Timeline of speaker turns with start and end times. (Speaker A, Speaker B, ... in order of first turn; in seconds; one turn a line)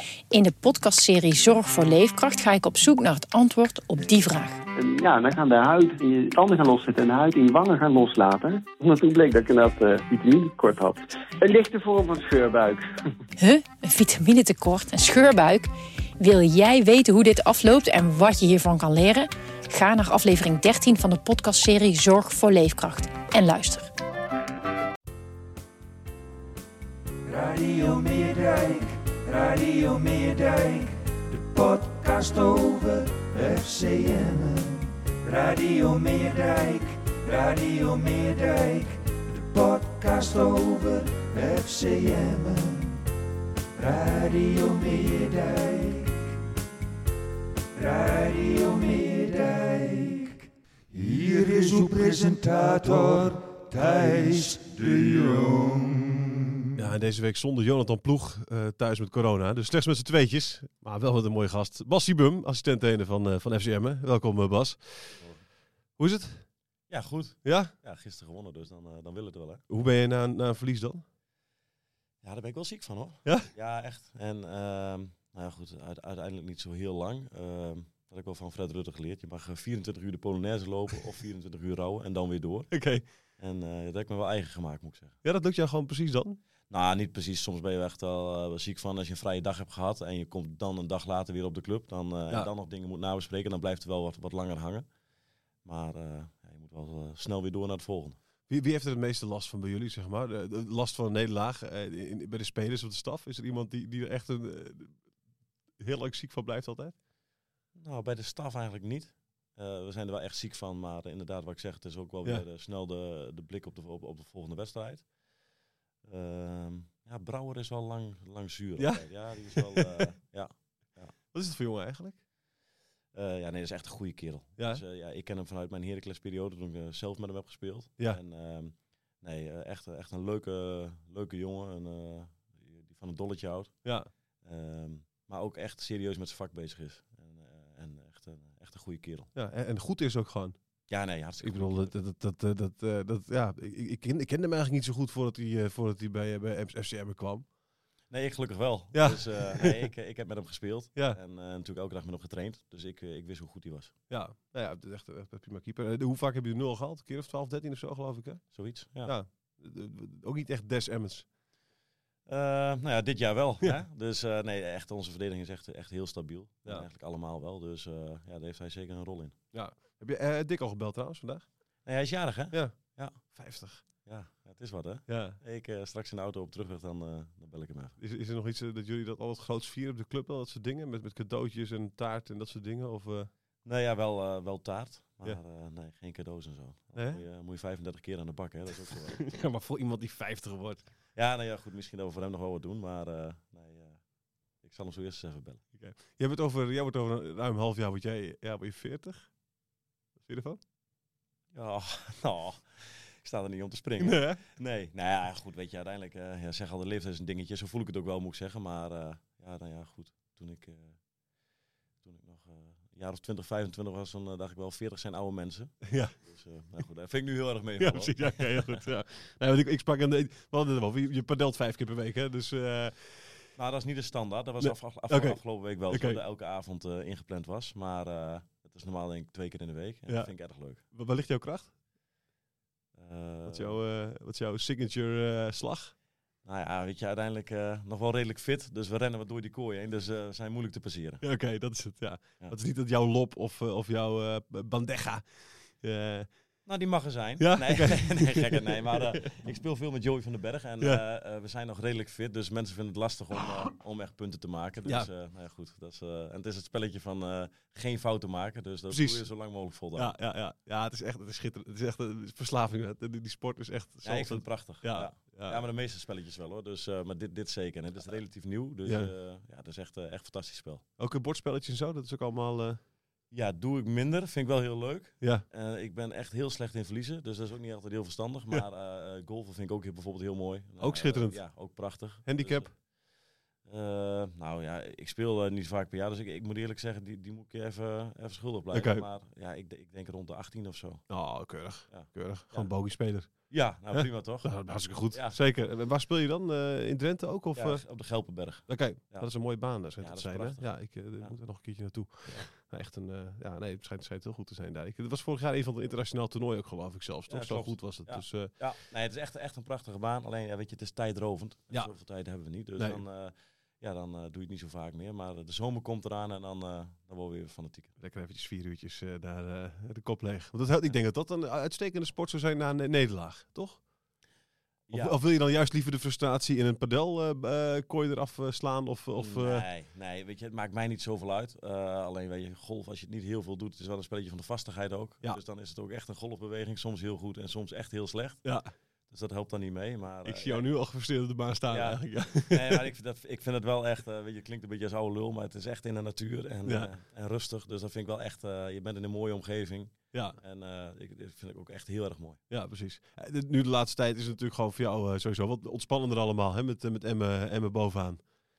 Speaker A: 0.3-4.6
Speaker B: 4.8-12.8
Speaker A: 13.4-23.9
Speaker C: 27.2-43.0
Speaker C: 43.8-46.4
Speaker C: 47.7-56.4
Speaker D: 56.8-65.2
Speaker E: 65.2-65.4
Speaker D: 66.0-66.5
Speaker E: 66.9-69.6
Speaker D: 67.4-67.7
Speaker D: 69.7-71.0
Speaker E: 72.2-82.8
Speaker D: 73.2-73.5
Speaker D: 82.7-83.0
Speaker E: 83.4-85.2
Speaker D: 85.2-86.4
Speaker E: 86.7-94.8
Speaker E: 95.6-98.2
Speaker D: 98.5-105.0
Speaker D: 105.8-106.9
Speaker E: 107.7-115.1
Speaker E: 116.0-121.1
Speaker D: 118.8-120.0
Speaker D: 121.3-122.2
Speaker E: 123.1-133.8
Speaker D: 133.8-134.1
Speaker E: 134.4-139.3
Speaker D: 139.3-140.6
Speaker E: 140.9-141.9
Speaker D: 141.4-147.5
Speaker E: 148.1-153.9
Speaker D: 148.9-149.9
Speaker D: 154.1-161.3
Speaker E: 158.5-159.1
Speaker E: 162.3-169.3
Speaker D: 169.5-171.5
Speaker E: 171.8-173.2
Speaker D: 172.5-173.8
Speaker E: 174.0-177.9
Speaker D: 175.1-175.4
Speaker D: 178.0-183.3
Speaker E: 183.6-189.2
Speaker D: 186.9-187.2
Speaker D: 189.2-190.9
Speaker E: 191.1-194.0
Speaker E: 194.6-195.6
Speaker D: 195.7-199.3
Speaker D: 200.2-200.6
Speaker E: 201.5-211.0
Speaker D: 204.0-204.4
Speaker E: 212.0-218.8
Speaker D: 215.8-216.1
Speaker D: 217.8-223.5
Speaker E: 223.6-230.8
Speaker D: 224.6-226.2
Speaker D: 230.1-231.7
Speaker E: 232.9-233.8
Speaker D: 233.5-235.9
Speaker E: 236.4-241.2
Speaker D: 241.2-246.4
Speaker E: 246.7-260.1
Speaker D: 247.4-249.5
Speaker D: 258.9-259.2
Speaker D: 259.9-265.6
Speaker E: 264.0-270.8
Speaker D: 268.9-269.1
Speaker D: 271.0-272.8
Speaker E: 273.3-282.8
Speaker D: 280.8-282.7
Speaker E: 283.6-291.1
Speaker D: 288.7-289.0
Speaker D: 291.1-297.8
Speaker E: 291.9-292.7
Speaker E: 293.2-295.4
Speaker E: 297.6-301.4
Speaker D: 298.7-308.5
Speaker E: 307.3-317.9
Speaker D: 312.8-313.0
Speaker D: 318.0-323.9
Speaker E: 324.9-325.2
Speaker D: 324.9-329.7
Speaker E: 329.2-338.6
Speaker D: 338.4-338.7
Speaker E: 339.1-340.6
Speaker D: 340.2-342.9
Speaker E: 341.7-352.4
Speaker D: 346.6-346.9
Speaker D: 350.1-350.4
Speaker D: 352.5-358.2